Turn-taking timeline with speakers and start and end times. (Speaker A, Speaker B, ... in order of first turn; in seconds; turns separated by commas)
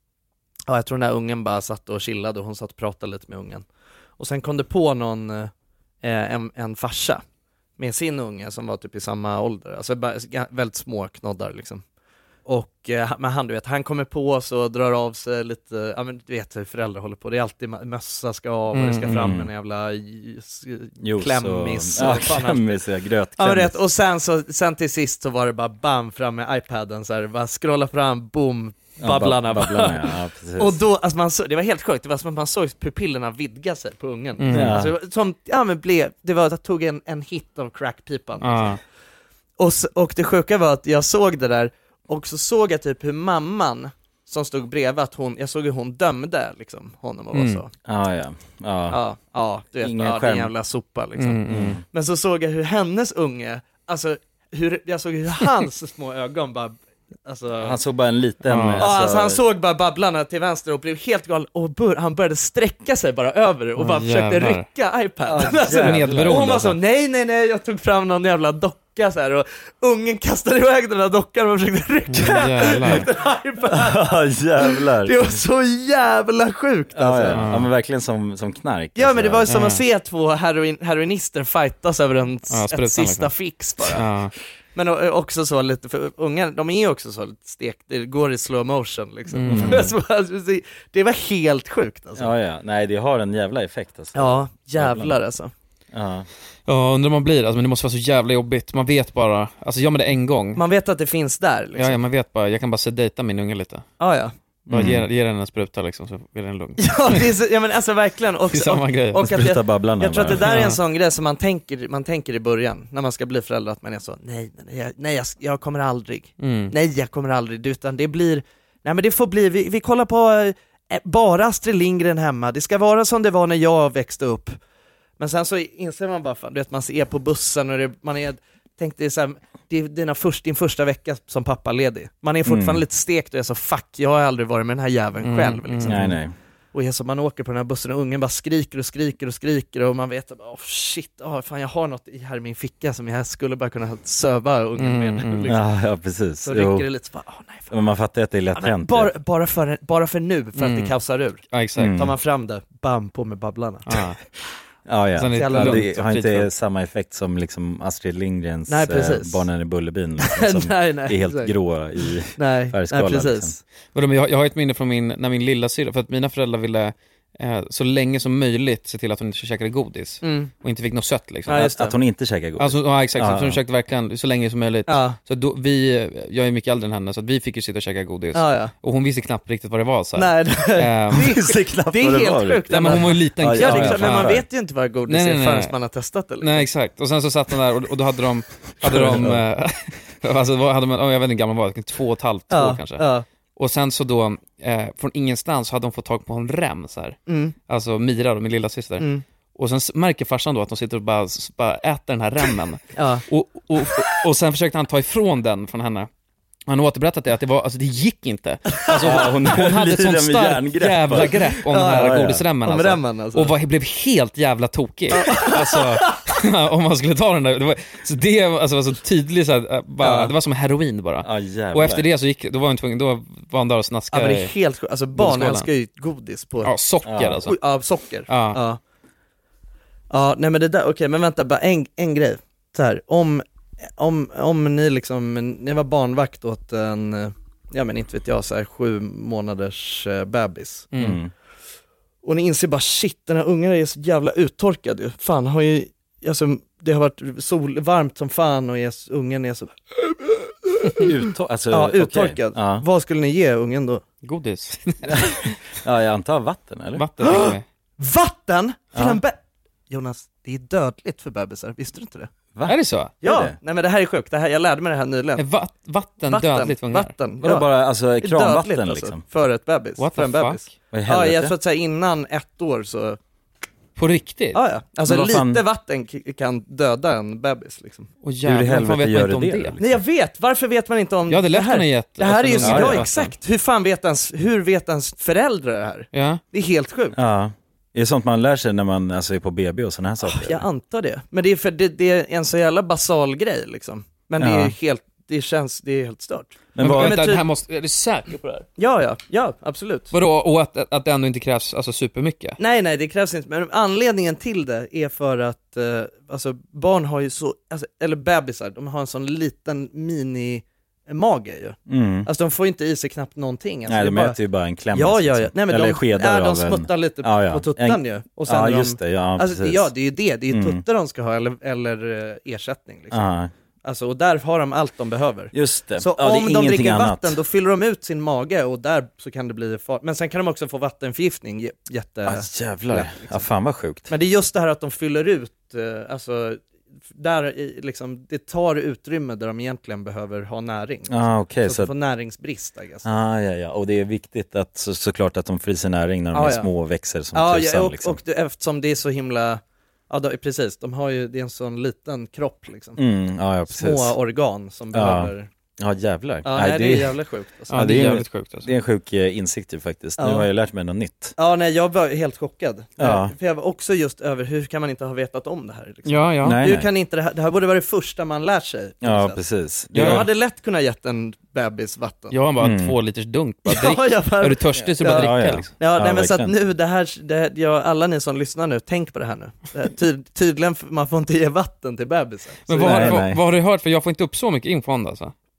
Speaker A: 0.7-3.6, Speaker A: 4.2-5.5, Speaker A: 6.0-7.2, Speaker A: 7.8-11.8, Speaker A: 12.4-22.8, Speaker B: 18.7-19.3, Speaker C: 19.1-19.5, Speaker C: 21.0-23.8, Speaker A: 23.4-38.7, Speaker C: 29.0-30.8, Speaker B: 34.4-34.7, Speaker C: 34.5-34.9, Speaker B: 38.4-38.8, Speaker A: 39.6-47.7, Speaker B: 47.3-47.6, Speaker C: 47.8-49.0, Speaker A: 48.9-57.8, Speaker C: 49.8-50.5, Speaker B: 51.2-51.8, Speaker C: 51.5-51.8, Speaker C: 57.6-59.4, Speaker B: 58.5-58.9, Speaker A: 58.8-77.5, Speaker B: 63.8-64.6, Speaker C: 65.3-66.5, Speaker B: 65.6-66.8, Speaker B: 72.1-73.1, Speaker C: 73.7-75.4, Speaker C: 76.9-79.5, Speaker B: 77.3-77.7, Speaker A: 78.9-84.0, Speaker B: 79.5-79.8, Speaker B: 82.5-83.3, Speaker B: 83.9-84.3, Speaker A: 84.7-92.3, Speaker B: 89.3-89.9, Speaker C: 89.5-89.9, Speaker C: 92.2-95.2, Speaker A: 94.1-95.5, Speaker C: 95.9-96.3, Speaker B: 96.7-100.6, Speaker A: 100.5-102.0, Speaker B: 101.8-103.8, Speaker A: 104.0-104.3, Speaker B: 104.7-107.3, Speaker C: 104.7-105.0, Speaker A: 106.8-124.6, Speaker B: 108.5-109.2, Speaker C: 109.2-110.5, Speaker B: 110.4-110.8, Speaker B: 116.4-116.7, Speaker A: 125.2-136.1, Speaker C: 132.4-132.8, Speaker B: 135.2-136.1, Speaker C: 135.9-136.3, Speaker A: 136.7-145.6, Speaker B: 144.8-145.5, Speaker C: 145.5-146.9, Speaker A: 146.4-147.7, Speaker C: 147.7-149.1, Speaker A: 148.5-154.0, Speaker B: 150.6-150.9, Speaker B: 151.5-151.9, Speaker C: 151.8-152.1, Speaker B: 153.9-154.2, Speaker C: 154.8-163.6, Speaker B: 155.2-156.5, Speaker A: 155.3-155.9, Speaker A: 158.7-159.4, Speaker A: 160.2-161.5, Speaker A: 162.3-163.5, Speaker B: 163.9-171.7, Speaker A: 170.2-170.5, Speaker A: 171.5-171.9, Speaker C: 171.6-173.6, Speaker B: 172.6-181.3, Speaker A: 174.9-175.2, Speaker A: 178.3-178.7, Speaker A: 180.2-186.7, Speaker C: 181.1-184.4, Speaker B: 182.7-184.4, Speaker B: 185.1-185.7, Speaker B: 186.4-206.1, Speaker C: 188.9-189.4, Speaker A: 192.5-193.2, Speaker A: 197.3-197.6, Speaker A: 199.0-199.2, Speaker A: 202.9-203.2, Speaker B: 206.7-224.5, Speaker A: 208.8-209.2, Speaker C: 208.9-212.4, Speaker A: 211.7-213.5, Speaker A: 215.1-216.2, Speaker A: 220.0-220.3, Speaker C: 221.2-222.1, Speaker A: 224.1-226.7, Speaker B: 225.1-225.7, Speaker B: 226.6-227.6, Speaker C: 227.0-227.4, Speaker A: 227.4-228.8, Speaker B: 228.3-228.6, Speaker A: 230.1-233.4, Speaker A: 234.0-240.9, Speaker B: 240.9-241.2, Speaker C: 241.0-241.3, Speaker A: 242.2-251.1, Speaker C: 251.0-252.8, Speaker A: 251.7-254.0, Speaker B: 254.2-255.6, Speaker C: 255.8-257.1, Speaker B: 256.9-257.6, Speaker A: 257.2-259.4, Speaker C: 258.9-259.2, Speaker A: 259.9-262.3, Speaker C: 262.5-263.6, Speaker B: 262.7-263.1, Speaker A: 263.2-265.4, Speaker B: 265.4-267.1, Speaker A: 266.3-267.7, Speaker C: 267.4-269.2, Speaker A: 268.2-273.2, Speaker B: 270.0-270.8, Speaker C: 270.9-271.5, Speaker B: 273.9-274.6, Speaker A: 274.5-278.1, Speaker C: 275.1-275.6, Speaker B: 278.2-279.8, Speaker C: 278.4-279.9, Speaker A: 279.8-287.2, Speaker B: 281.3-283.3, Speaker C: 282.6-283.1, Speaker B: 286.1-286.4, Speaker C: 287.1-290.6, Speaker A: 290.2-297.4, Speaker C: 294.4-294.7, Speaker C: 296.7-297.2, Speaker B: 296.8-298.6, Speaker A: 298.8-300.1, Speaker B: 300.1-302.6, Speaker A: 302.6-314.4, Speaker C: 311.9-312.3, Speaker C: 313.9-319.9, Speaker A: 314.9-323.2, Speaker C: 320.5-320.8, Speaker C: 323.1-323.5, Speaker A: 323.8-333.4, Speaker C: 325.5-327.4, Speaker C: 332.2-334.1, Speaker A: 334.1-343.1, Speaker C: 341.1-341.9, Speaker C: 343.0-348.2, Speaker A: 346.3-346.7, Speaker A: 347.3-353.0, Speaker C: 352.9-354.1, Speaker A: 353.7-355.5, Speaker C: 354.9-357.2, Speaker A: 356.4-357.9, Speaker B: 357.7-358.7, Speaker C: 357.7-361.3, Speaker A: 360.2-360.5, Speaker A: 361.4-369.4, Speaker C: 363.0-363.3, Speaker B: 366.1-366.6, Speaker C: 366.4-366.9, Speaker C: 369.0-370.3, Speaker B: 369.9-370.3, Speaker A: 369.9-372.4, Speaker B: 372.3-375.7, Speaker C: 372.6-372.9, Speaker A: 373.7-383.2, Speaker C: 375.0-376.5, Speaker B: 382.7-385.3, Speaker C: 382.8-383.4